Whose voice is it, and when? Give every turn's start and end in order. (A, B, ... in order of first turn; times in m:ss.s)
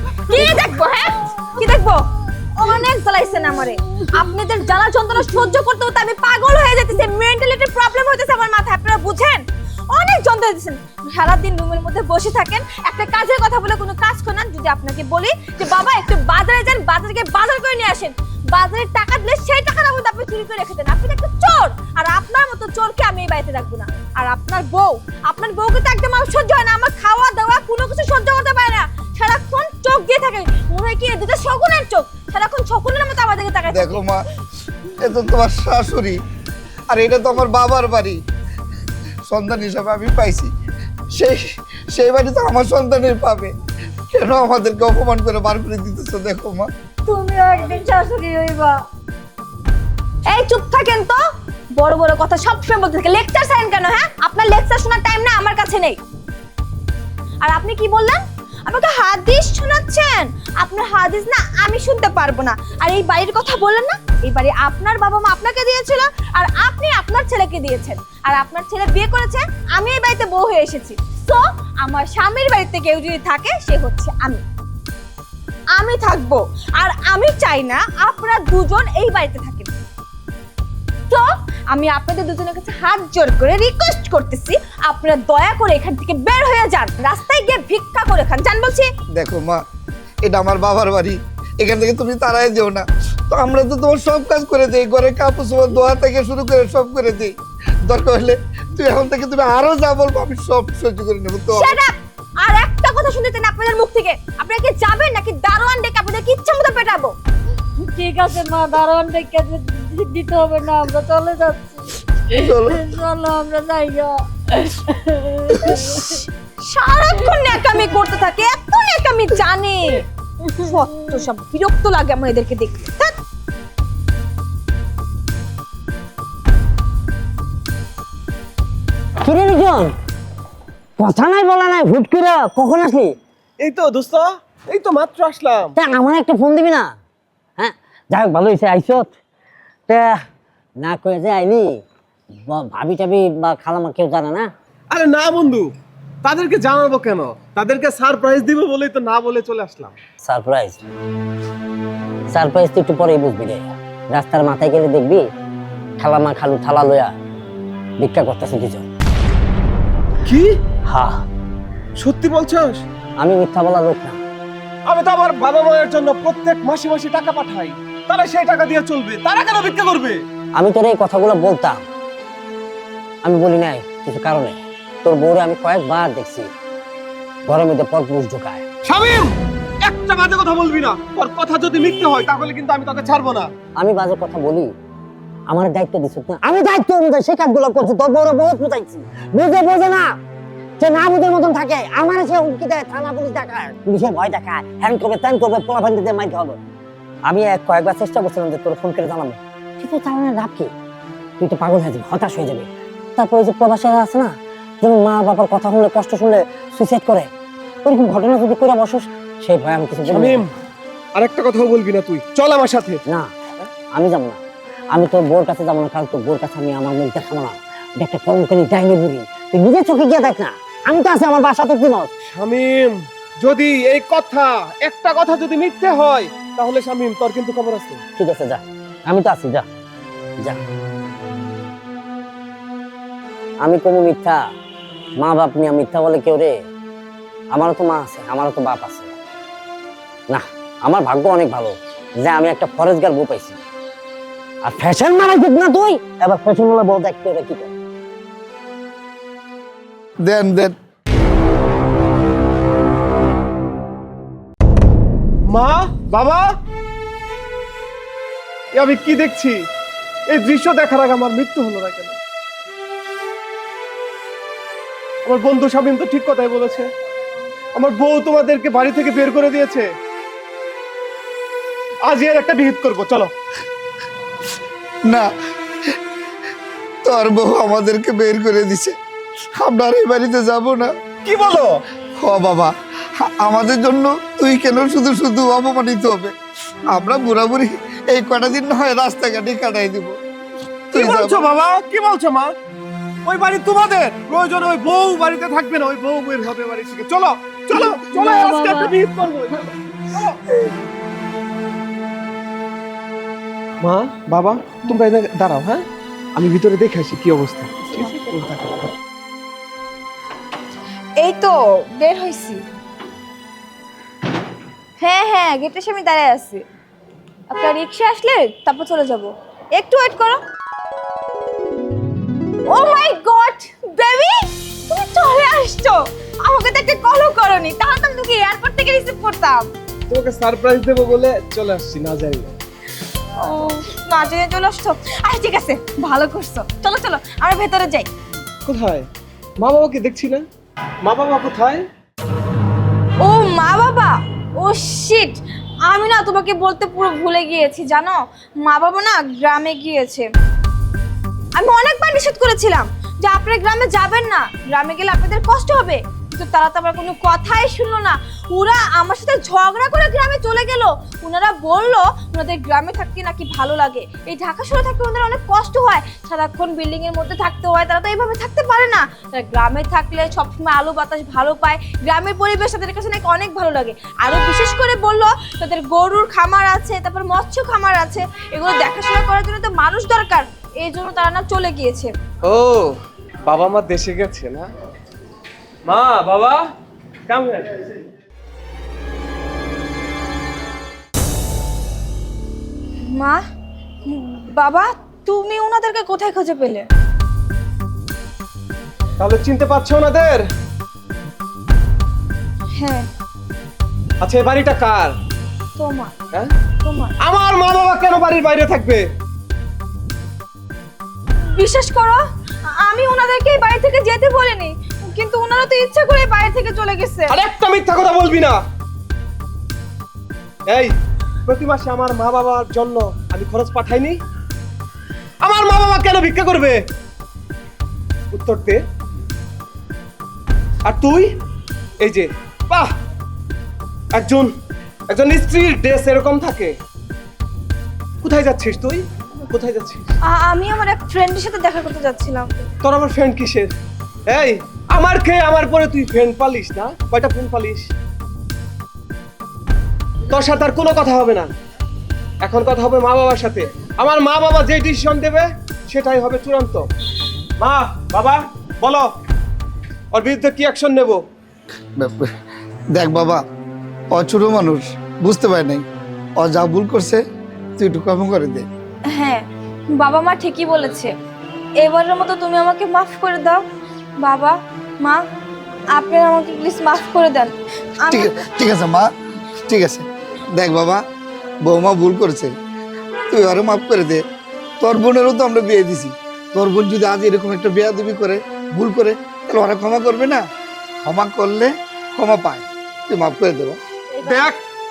0:00.3-0:02.0 A
0:02.6-0:34.0 A
0:33.7-0:34.2 B
0:35.0-0:36.2 B
0:36.9-0:38.2 B
0:39.3-0:40.5 B
0:41.1-0:43.5 B
0:44.1-0:46.7 B
0:47.1-0:48.8 A
0:50.3-0:51.2 A
0:51.8-0:56.0 A
0:57.4-1:14.4 A
1:15.7-1:19.7 A
1:21.1-1:28.9 A
1:29.1-1:29.6 B
1:30.2-1:41.8 B
1:41.5-1:47.2 A
1:47.9-1:51.7 C
1:52.3-1:52.9 B
1:52.8-1:54.2 C
1:55.2-1:55.7 C
1:56.6-2:00.0 A
2:00.6-2:03.1 A
2:09.2-2:10.0 D
2:11.0-2:13.2 D
2:13.6-2:15.8 E
2:15.8-2:17.0 D
2:17.6-2:19.1 D
2:19.9-2:20.2 D
2:20.8-2:21.8 D
2:22.5-2:24.5 D
2:24.9-2:25.7 E
2:26.2-2:30.0 E
2:30.2-2:30.8 D
2:32.3-2:35.3 D
2:36.0-2:37.2 D
2:38.0-2:38.9 D
2:40.3-2:40.5 E
2:40.8-2:41.2 D
2:42.0-2:42.8 E
2:43.2-2:44.2 D
2:44.9-2:50.2 E
2:50.6-2:51.8 D
2:53.2-2:56.5 D
2:57.5-2:58.6 D
2:58.8-3:03.5 E
3:03.8-3:04.7 D
3:05.5-3:10.2 D
3:10.8-3:16.6 D
3:17.3-3:20.7 D
3:21.4-3:27.3 D
3:27.8-3:30.4 D
3:30.1-3:30.5 E
3:31.2-3:33.0 E
3:33.9-3:42.1 D
3:42.3-3:48.0 E
3:48.2-3:49.7 D
3:53.6-3:54.5 D
3:55.2-3:56.6 D
3:57.5-3:59.1 D
4:00.3-4:03.6 D
4:04.6-4:07.7 D
4:10.2-4:10.8 B
4:15.5-4:16.5 E
4:18.7-4:19.6 E
4:20.3-4:22.2 E
4:25.2-4:26.9 E
4:27.8-4:29.9 E
4:32.0-4:33.3 E
4:37.0-4:39.0 B
4:39.6-4:40.9 B
4:41.2-4:41.8 E
4:42.2-4:46.3 B
4:46.9-4:50.2 B
4:50.9-4:51.4 B
4:51.0-4:52.5 E
4:53.2-5:00.4 E
5:03.8-5:08.8 E
5:11.2-5:12.6 A
5:15.0-5:16.6 A
5:17.5-5:20.4 A
5:22.7-5:29.7 A
5:30.1-5:32.5 E
5:33.4-5:38.1 A
5:38.6-5:39.1 E
5:39.6-5:40.5 E
5:41.0-5:41.8 E
5:43.2-5:50.3 A
5:51.6-6:22.1 A
6:22.4-6:24.7 E
6:25.9-6:26.6 E
6:27.3-6:27.8 E
6:33.0-6:33.4 A
6:34.1-6:36.9 A
6:39.2-6:40.4 E
6:42.8-6:43.1 A
6:44.2-6:45.2 E
6:45.8-6:46.1 A
6:46.8-6:47.2 A
6:47.2-6:49.1 E
6:51.5-6:57.4 A
6:57.3-6:58.6 E
7:01.5-7:04.2 E
7:05.4-7:06.8 E
7:08.3-7:08.8 E
7:10.8-7:11.4 E
7:12.0-7:12.9 E
7:14.1-7:14.5 E
7:15.1-7:16.8 E
7:18.2-7:20.1 E
7:20.2-7:22.5 A
7:22.8-7:23.7 E
7:24.3-7:27.9 E
7:30.3-7:31.5 E
7:32.4-7:36.9 E
7:37.6-7:39.1 E
7:40.1-7:41.2 E
7:42.0-7:42.3 B
7:42.9-7:43.4 B
7:44.1-7:45.8 B
7:46.4-7:47.2 B
7:47.8-7:48.7 B
7:49.1-7:51.1 A
7:51.8-7:53.6 A
7:54.2-7:55.2 A
7:55.9-7:58.3 A
7:58.1-7:59.1 B
7:59.7-8:01.0 B
8:01.6-8:02.5 B
8:03.3-8:04.2 B
8:04.8-8:10.4 B
8:11.0-8:13.8 B
8:14.2-8:14.6 E